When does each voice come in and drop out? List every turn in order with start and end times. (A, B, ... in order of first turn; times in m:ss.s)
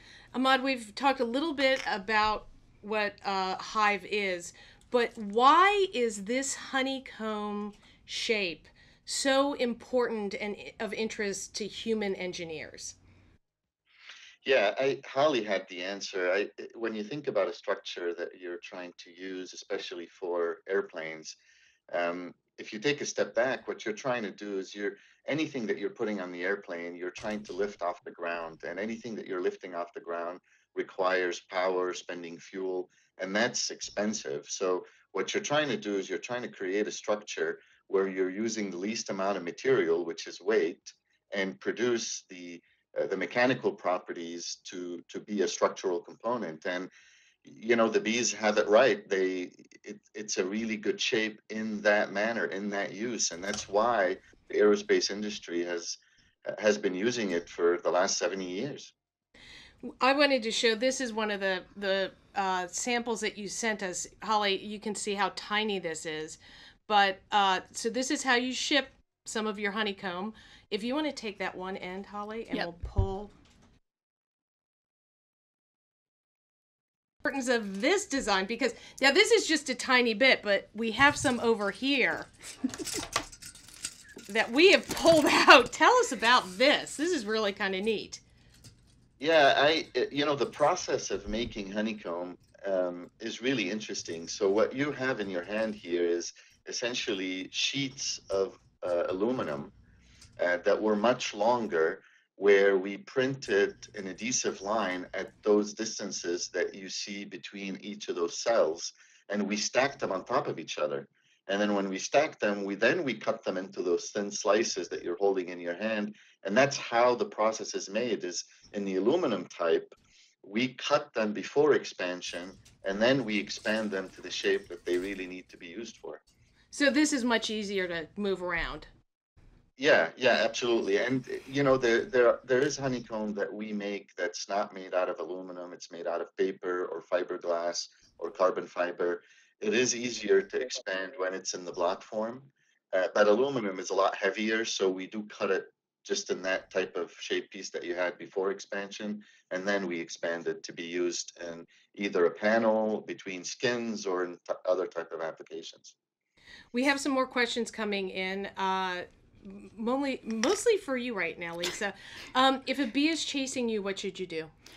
0:00.3-0:13.0 A
0:14.4-0:21.4 B
0:21.9-0:46.9 B
0:47.4-0:58.9 B
0:59.8-1:13.3 A
1:17.2-1:22.3 A
1:24.3-1:28.2 A
1:29.2-1:39.7 B
1:40.4-2:06.2 B
2:06.7-2:08.9 A
2:09.8-2:35.9 B
2:36.7-2:44.5 A